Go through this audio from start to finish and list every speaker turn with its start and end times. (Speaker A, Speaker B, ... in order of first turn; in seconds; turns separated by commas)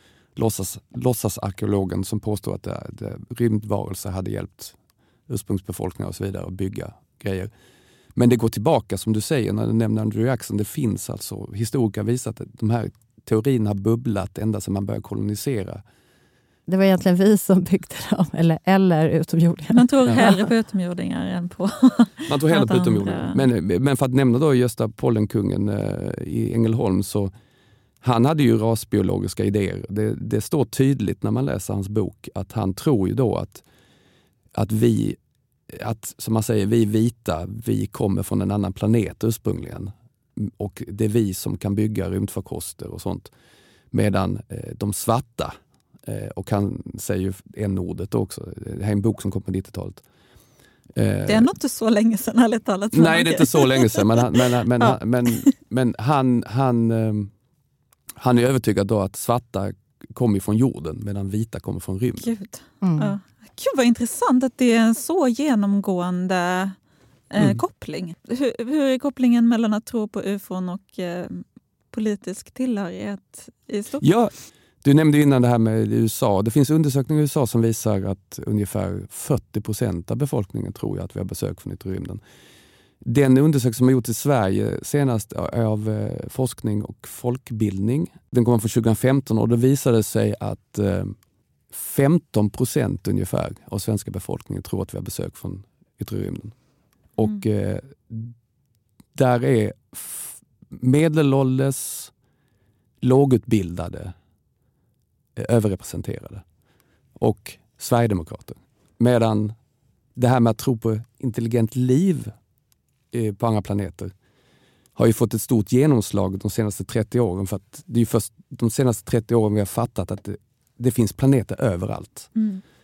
Speaker A: 0.4-4.8, Speaker A: 5.3-7.5, Speaker A: 8.2-15.8, Speaker B: 16.7-20.4, Speaker C: 19.7-23.4, Speaker A: 22.3-27.3, Speaker A: 28.0-33.6, Speaker A: 34.5-35.2, Speaker A: 35.7-43.3, Speaker A: 43.9-45.5, Speaker A: 46.1-50.0, Speaker A: 51.0-51.5, Speaker C: 51.3-55.5, Speaker A: 52.9-57.3, Speaker A: 58.2-62.3, Speaker C: 62.2-66.8, Speaker B: 62.8-63.2, Speaker C: 67.3-74.0, Speaker A: 74.0-74.3, Speaker A: 74.8-82.2, Speaker A: 83.0-91.2, Speaker A: 91.7-96.5, Speaker A: 97.2-98.3, Speaker A: 99.2-102.1, Speaker A: 103.0-104.2, Speaker A: 105.4-106.4, Speaker A: 107.2-109.5, Speaker A: 110.2-112.3, Speaker A: 113.1-114.1, Speaker A: 115.0-122.3, Speaker C: 122.4-122.6